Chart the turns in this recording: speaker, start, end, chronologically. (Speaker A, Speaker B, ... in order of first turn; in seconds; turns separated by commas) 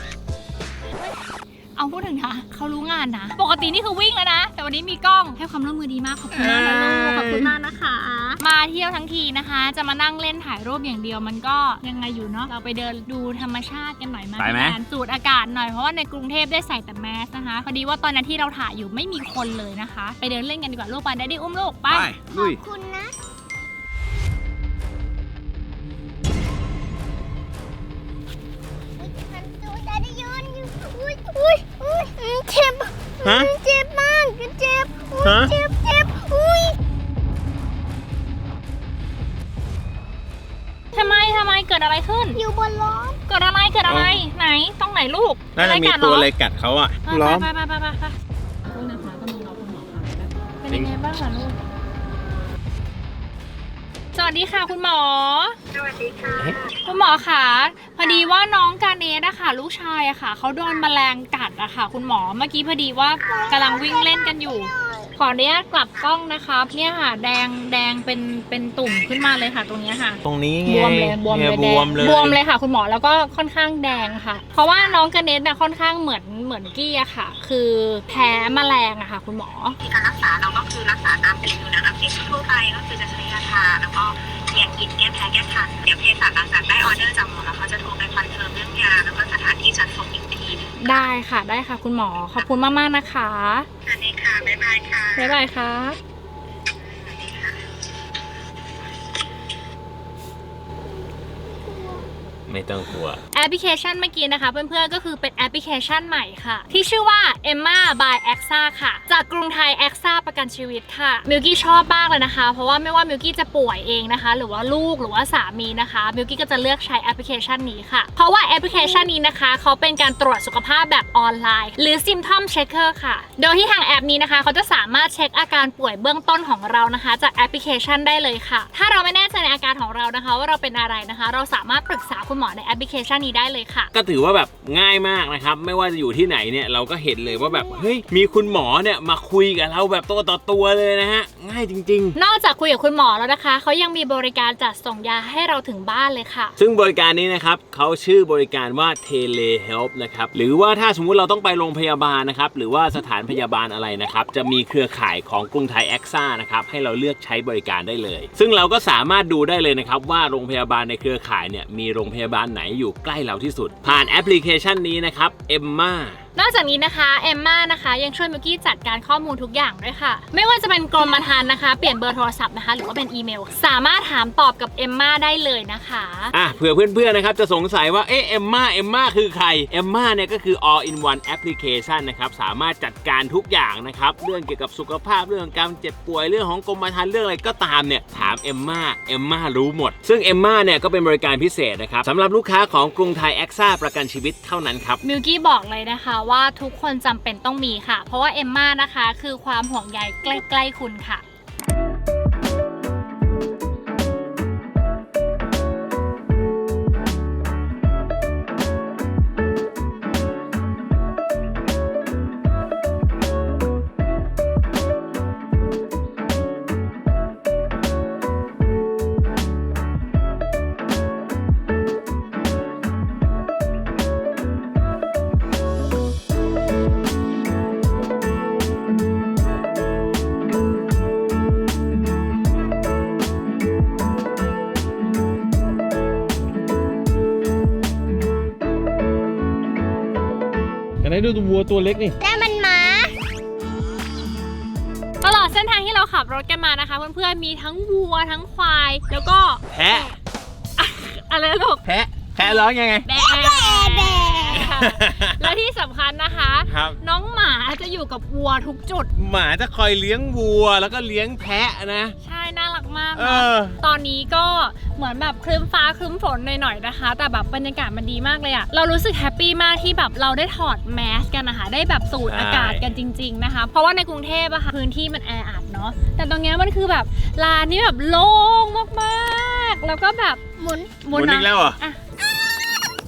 Speaker A: 1.8-7.4, Speaker B: 6.3-7.6, Speaker C: 7.1-8.4, Speaker A: 8.4-22.1, Speaker B: 14.4-14.8, Speaker B: 21.9-22.6, Speaker C: 22.3-23.1, Speaker C: 29.0-36.8, Speaker B: 33.2-33.5, Speaker B: 35.2-35.5, Speaker A: 40.9-42.4, Speaker C: 42.4-43.2, Speaker A: 43.3-46.3, Speaker B: 43.9-44.2, Speaker B: 45.5-47.5, Speaker A: 47.0-48.1, Speaker A: 48.7-51.6, Speaker A: 54.1-55.6, Speaker D: 55.7-56.9, Speaker C: 56.0-56.6, Speaker A: 56.8-79.8, Speaker C: 63.2-65.1, Speaker B: 70.2-72.4, Speaker D: 79.8-91.0, Speaker A: 90.8-93.7, Speaker D: 93.8-95.4, Speaker A: 95.2-96.0, Speaker D: 96.8-97.6, Speaker C: 101.5-102.1, Speaker B: 102.5-103.2, Speaker A: 103.3-133.9, Speaker B: 133.9-142.2, Speaker C: 137.3-137.9, Speaker A: 142.2-146.6, Speaker B: 146.6-166.2, Speaker A: 166.4-176.3, Speaker B: 176.3-195.0, Speaker A: 195.0-201.2, Speaker B: 241.0-242.2, Speaker C: 242.2-243.2, Speaker A: 245.2-249.6, Speaker B: 249.7-250.1, Speaker A: 250.8-251.8, Speaker B: 251.8-253.1, Speaker A: 252.4-259.1, Speaker C: 253.1-254.8, Speaker B: 254.6-255.5, Speaker B: 256.7-257.0, Speaker B: 259.1-262.1, Speaker A: 262.2-280.4, Speaker B: 263.1-263.8, Speaker B: 272.2-272.9, Speaker C: 280.6-281.1, Speaker A: 281.0-282.0, Speaker B: 281.1-281.8, Speaker C: 282.3-282.9